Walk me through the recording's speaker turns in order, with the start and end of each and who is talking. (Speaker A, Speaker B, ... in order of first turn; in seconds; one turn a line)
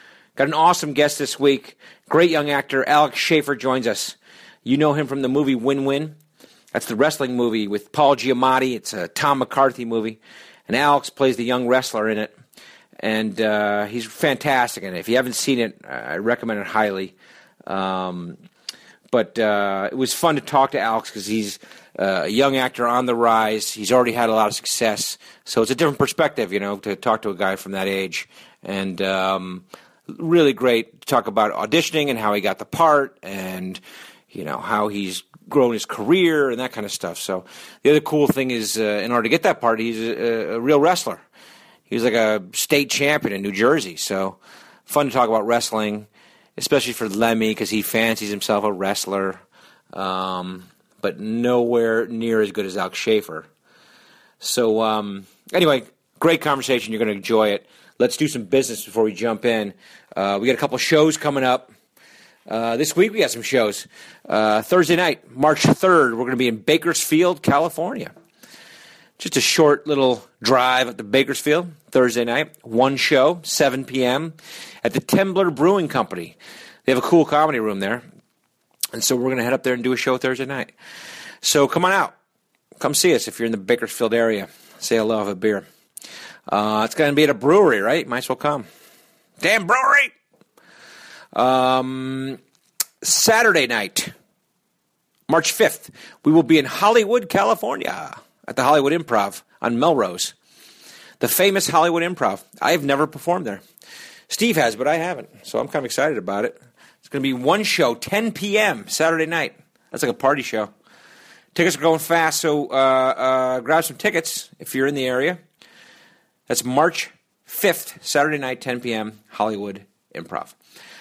Speaker A: 0.3-6.2
Speaker A: 6.7-12.3
Speaker A: 13.0-17.1
Speaker A: 17.6-18.4
Speaker A: 19.1-41.2
Speaker A: 41.9-49.4
Speaker A: 49.9-53.5
Speaker A: 54.4-61.7
Speaker A: 62.5-68.1
Speaker A: 69.2-78.0
Speaker A: 78.9-80.7
Speaker A: 81.4-82.1
Speaker A: 82.8-85.6
Speaker A: 86.5-88.7
Speaker A: 89.4-90.1
Speaker A: 91.3-92.4
Speaker A: 93.0-94.1
Speaker A: 95.3-100.3
Speaker A: 101.2-103.6
Speaker A: 104.3-110.7
Speaker A: 111.5-115.4
Speaker A: 116.5-120.5